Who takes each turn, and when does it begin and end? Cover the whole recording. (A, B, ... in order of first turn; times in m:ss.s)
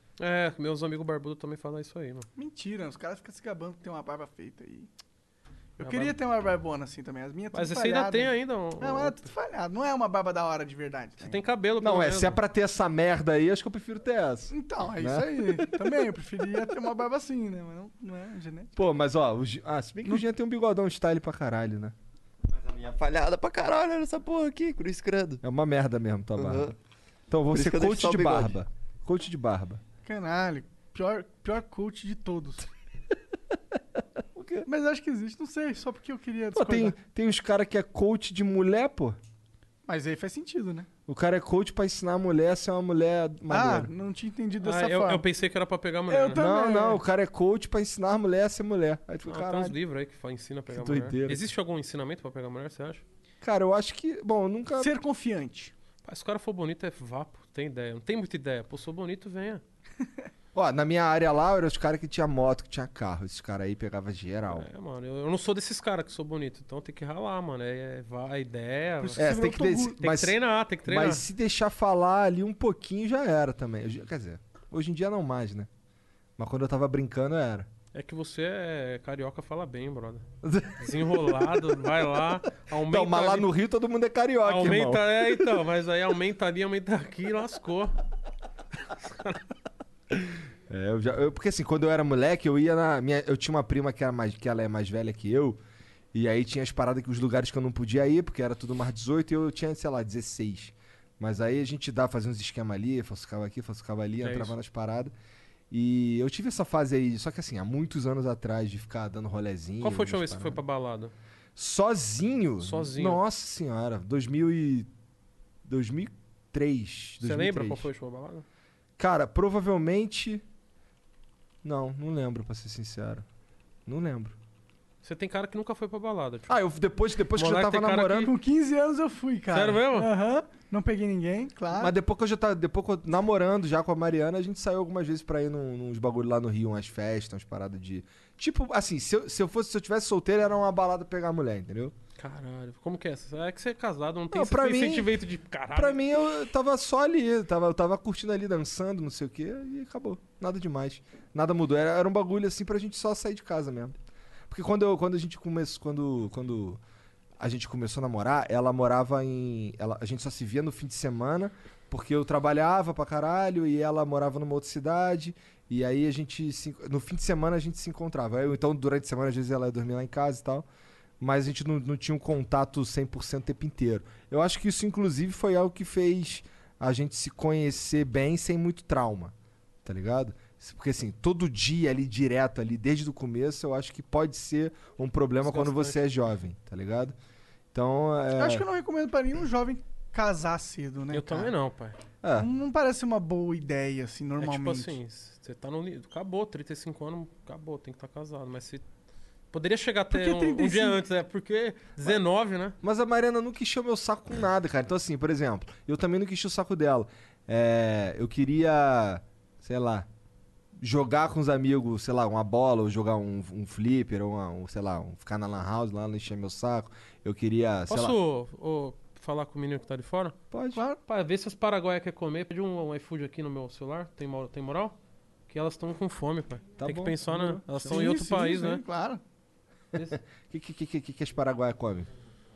0:00.2-0:02.3 A
0:02.4-0:04.9 B
0:05.8-0:11.4 B
0:05.8-0:06.1 A
0:07.5-0:09.3 A
0:11.2-0:12.4 A
0:11.8-0:15.8 C
0:14.5-0:18.8 B
0:18.8-0:21.9 C
0:22.5-0:25.4 D
0:25.4-0:26.8 C
0:26.4-0:26.7 D
0:27.3-0:29.8 C
0:27.5-0:28.5 D
0:30.0-0:32.7 B
0:34.3-0:34.7 C
0:34.6-0:37.0 B
0:36.5-0:39.2 C
0:39.8-0:40.9 B
0:41.1-0:43.9 C
0:43.5-0:45.2 B
0:44.6-0:46.4 A
0:46.1-0:47.0 B
0:46.3-0:49.8 C
0:49.2-0:53.0 A
0:50.7-0:51.4 C
0:53.4-0:54.9 C
0:54.8-0:55.7 B
0:56.0-0:59.6 A
1:00.5-1:04.7 C
1:04.5-1:09.3 A
1:09.0-1:10.0 B
1:09.2-1:15.7 C
1:10.0-1:11.2 A
1:16.4-1:17.7 C
1:17.9-1:20.2 A
1:20.4-1:21.7 C
1:20.8-1:23.5 A
1:22.8-1:25.5 C
1:24.4-1:28.0 A
1:28.9-1:29.4 A
1:30.1-1:35.6 C
1:36.1-1:45.1 C
1:44.2-1:44.6 A
1:45.7-1:50.6 C
1:49.8-1:51.1 A
1:51.6-1:54.9 C
1:52.6-1:53.2 A
1:55.6-1:57.9 C
1:57.2-1:58.4 A
1:59.0-2:00.4 C
2:01.6-2:03.2 C
2:03.8-2:04.4 C
2:05.0-2:06.5 A
2:06.5-2:08.3 C
2:07.3-2:08.3 A
2:08.2-2:11.9 B
2:09.5-2:10.1 A
2:11.7-2:21.9 C
2:22.2-2:26.3 A
2:24.3-2:25.1 C
2:25.7-2:34.0 C
2:34.5-2:36.8 C
2:37.4-2:50.6 C
2:51.2-2:59.3 C
2:59.8-3:07.2 C
3:05.4-3:06.0 A
3:07.7-3:08.6 C
3:08.4-3:11.5 B
3:11.1-3:12.0 A
3:12.2-3:12.5 C
3:12.4-3:15.0 B
3:14.4-3:18.8 A
3:19.5-3:22.8 A
3:20.1-3:21.0 B
3:22.8-3:30.1 C
3:30.8-3:38.2 C
3:37.9-3:40.4 A
3:40.5-3:40.8 C
3:40.7-3:41.0 B
3:41.1-3:45.0 A
3:45.5-3:48.8 A
3:46.8-3:47.9 C
3:47.8-3:49.2 B
3:49.9-3:52.1 C